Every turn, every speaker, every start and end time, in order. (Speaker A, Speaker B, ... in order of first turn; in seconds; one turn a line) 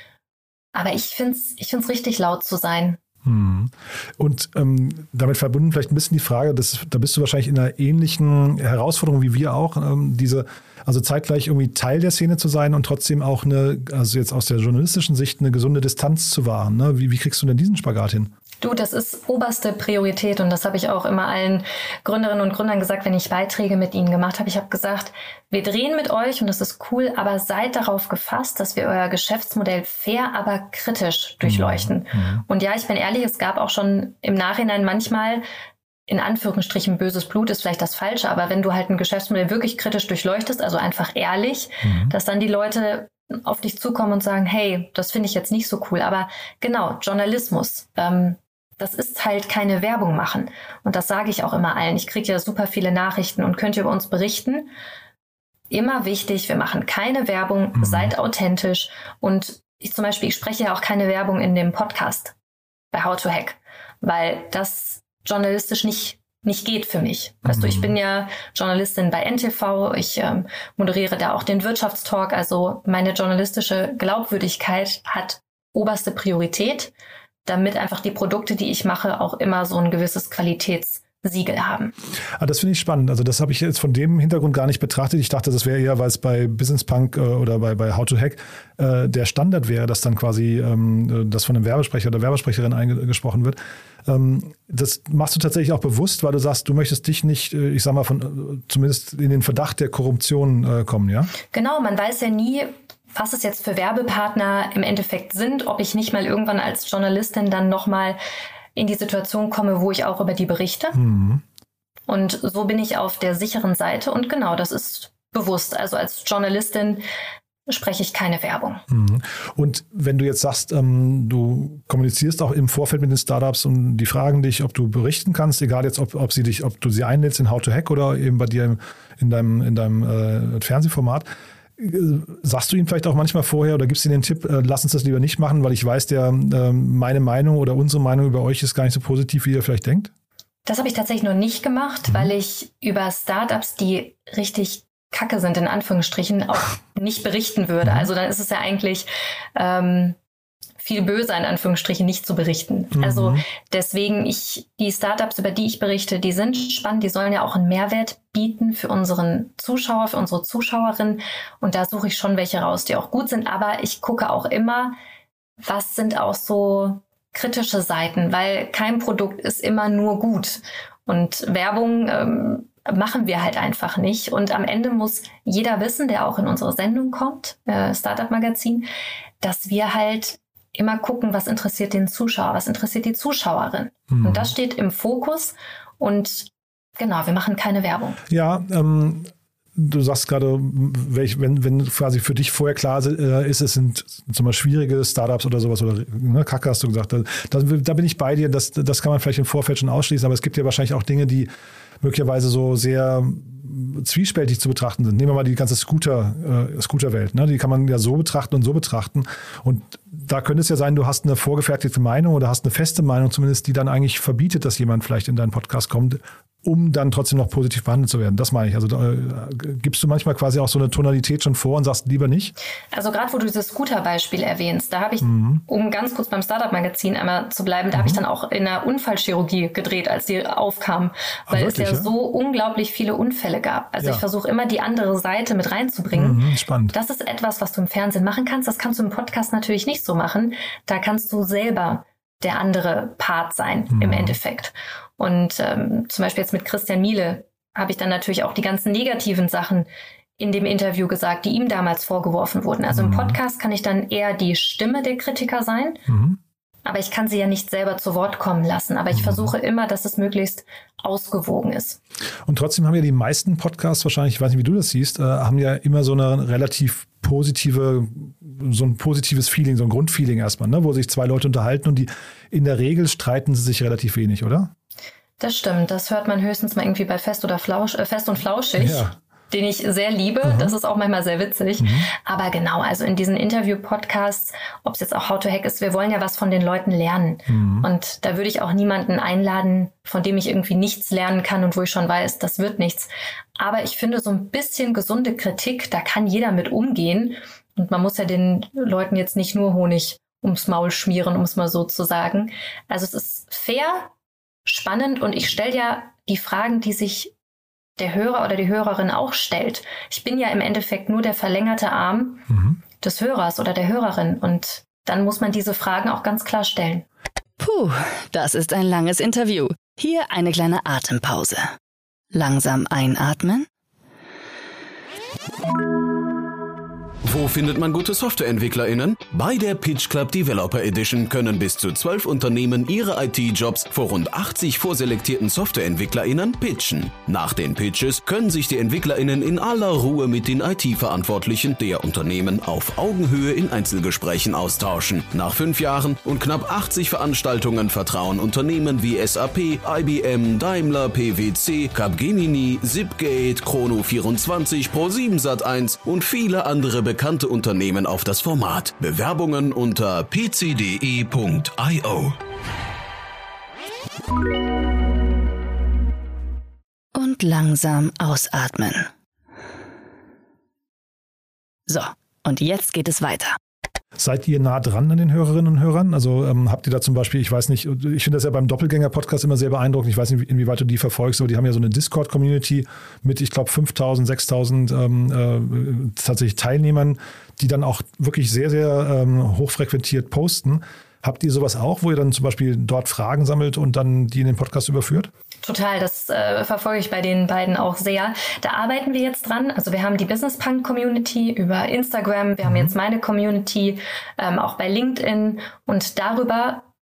Speaker A: 0.7-3.0
Speaker B: 3.2-18.3
Speaker A: 18.6-35.4
Speaker B: 31.4-32.4
Speaker A: 36.1-54.7
Speaker B: 41.8-42.1
Speaker A: 55.7-62.3
Speaker B: 57.8-58.1
Speaker A: 62.9-76.9
Speaker B: 67.4-67.9
Speaker A: 77.4-81.9
Speaker B: 82.4-101.3
Speaker A: 101.5-108.2
Speaker A: 108.7-111.0
Speaker B: 110.9-111.4
Speaker A: 112.1-117.0
Speaker A: 117.7-118.8
Speaker B: 118.9-131.3
Speaker B: 131.8-140.1
Speaker A: 140.7-150.2
Speaker B: 142.1-142.3
Speaker B: 147.8-148.1
Speaker A: 150.8-165.0
Speaker B: 152.9-153.4
Speaker A: 165.6-178.9
Speaker A: 179.4-188.2
Speaker B: 184.1-184.5
Speaker B: 188.3-201.5
Speaker B: 202.0-222.5
Speaker A: 222.9-256.0
Speaker B: 225.2-225.6
Speaker B: 227.9-228.2
Speaker B: 231.5-232.1
Speaker B: 236.1-236.9
Speaker B: 243.9-244.4
Speaker B: 252.9-253.4
Speaker B: 256.1-256.4
Speaker A: 256.8-262.0
Speaker B: 259.1-259.5
Speaker B: 262.4-274.7
Speaker A: 275.4-304.1
Speaker B: 278.8-279.1
Speaker B: 280.4-280.7
Speaker B: 281.8-282.1
Speaker B: 287.5-287.9
Speaker A: 304.6-307.3
Speaker A: 308.0-312.5
Speaker B: 312.5-312.8
Speaker A: 313.0-317.1
Speaker C: 317.6-321.7
Speaker C: 322.3-323.7
Speaker D: 327.2-362.4
Speaker C: 367.1-369.1
Speaker C: 371.9-373.6
Speaker B: 374.2-395.3
Speaker A: 395.6-406.9
Speaker B: 402.6-402.9